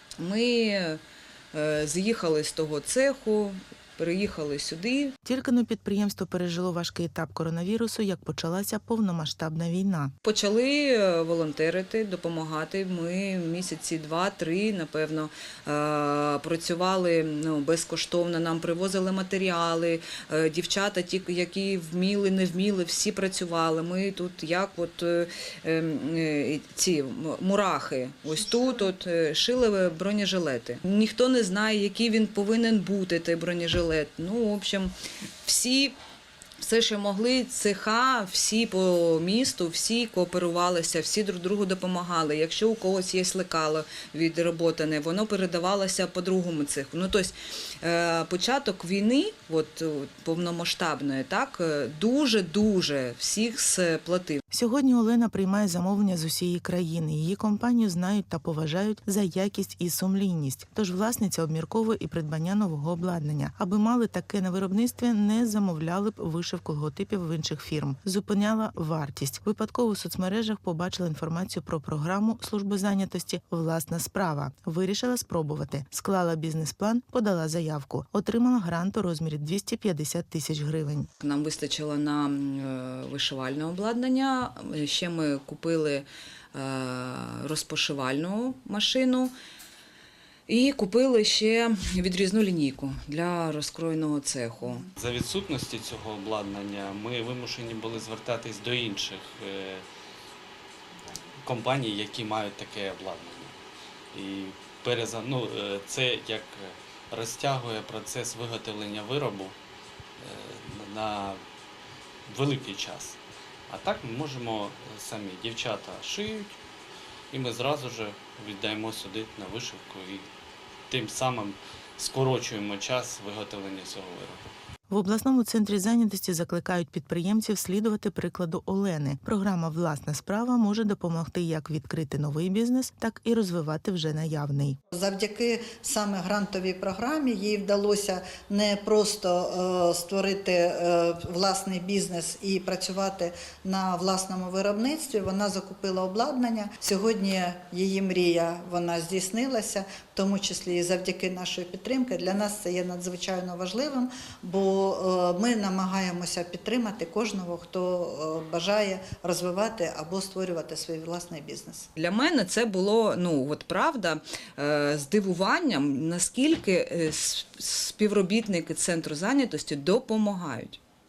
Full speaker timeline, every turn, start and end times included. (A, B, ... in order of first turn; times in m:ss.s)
0:00.2-0:01.0 A
0:01.5-0:05.2 A
0:05.2-0:10.1 B
0:10.2-0:34.9 A
0:35.4-0:36.0 A
0:36.6-0:54.4 A
0:54.5-1:21.1 B
1:21.2-1:29.3 A
1:30.5-1:34.9 A
1:35.0-1:39.8 C
1:41.4-1:43.6 C
1:44.1-1:49.6 C
1:50.2-1:51.4 C
1:52.3-1:53.2 C
1:53.7-1:56.6 C
1:57.3-2:00.3 C
2:00.9-2:04.4 C
2:04.9-2:14.8 B
2:14.9-2:41.9 D
2:42.0-2:50.8 A